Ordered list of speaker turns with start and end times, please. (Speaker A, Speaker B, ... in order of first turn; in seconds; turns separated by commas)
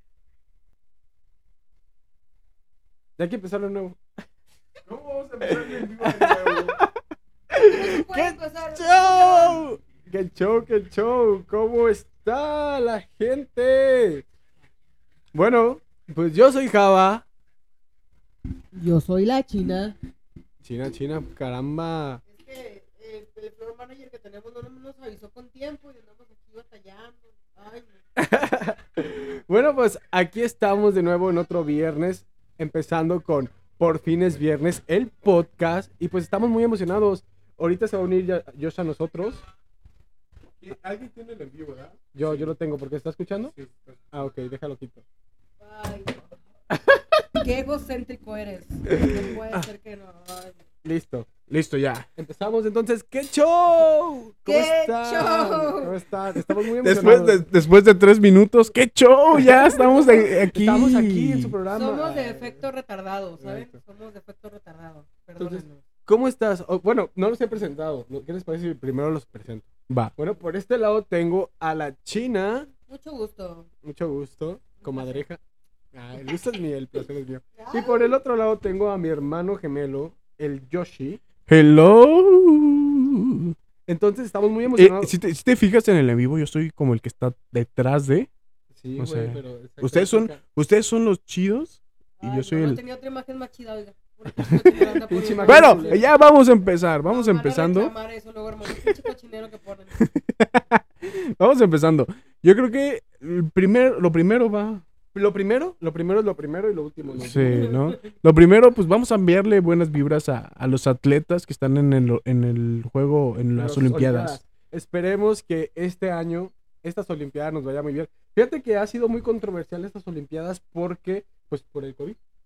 Speaker A: 3.2-4.0, Speaker B: 4.9-6.8, Speaker A: 5.4-6.9, Speaker A: 7.5-14.2, Speaker C: 7.7-9.7, Speaker A: 15.3-17.2, Speaker C: 18.7-20.0, Speaker A: 20.6-22.2, Speaker C: 22.3-27.9, Speaker A: 28.2-39.4, Speaker B: 40.6-42.3, Speaker A: 42.1-43.5, Speaker A: 44.1-45.0, Speaker C: 45.6-46.2, Speaker C: 47.4-50.5, Speaker A: 48.9-49.7, Speaker A: 50.8-51.3, Speaker B: 51.5-52.1, Speaker A: 52.2-57.5, Speaker C: 54.5-55.9, Speaker B: 56.8-61.5, Speaker A: 59.3-62.6, Speaker C: 61.7-65.8, Speaker A: 63.4-63.7, Speaker A: 65.4-72.7, Speaker C: 72.9-73.7, Speaker A: 73.8-75.4, Speaker C: 74.8-75.2, Speaker A: 75.9-81.2, Speaker C: 77.6-78.1, Speaker B: 81.5-83.5, Speaker A: 83.9-85.1, Speaker B: 84.8-88.3, Speaker A: 88.8-90.4, Speaker B: 89.0-92.8, Speaker C: 92.2-96.1, Speaker A: 94.7-96.0, Speaker B: 95.4-97.9, Speaker C: 97.1-100.0, Speaker B: 100.0-104.8, Speaker A: 105.1-107.8, Speaker B: 107.2-114.4, Speaker A: 113.6-122.2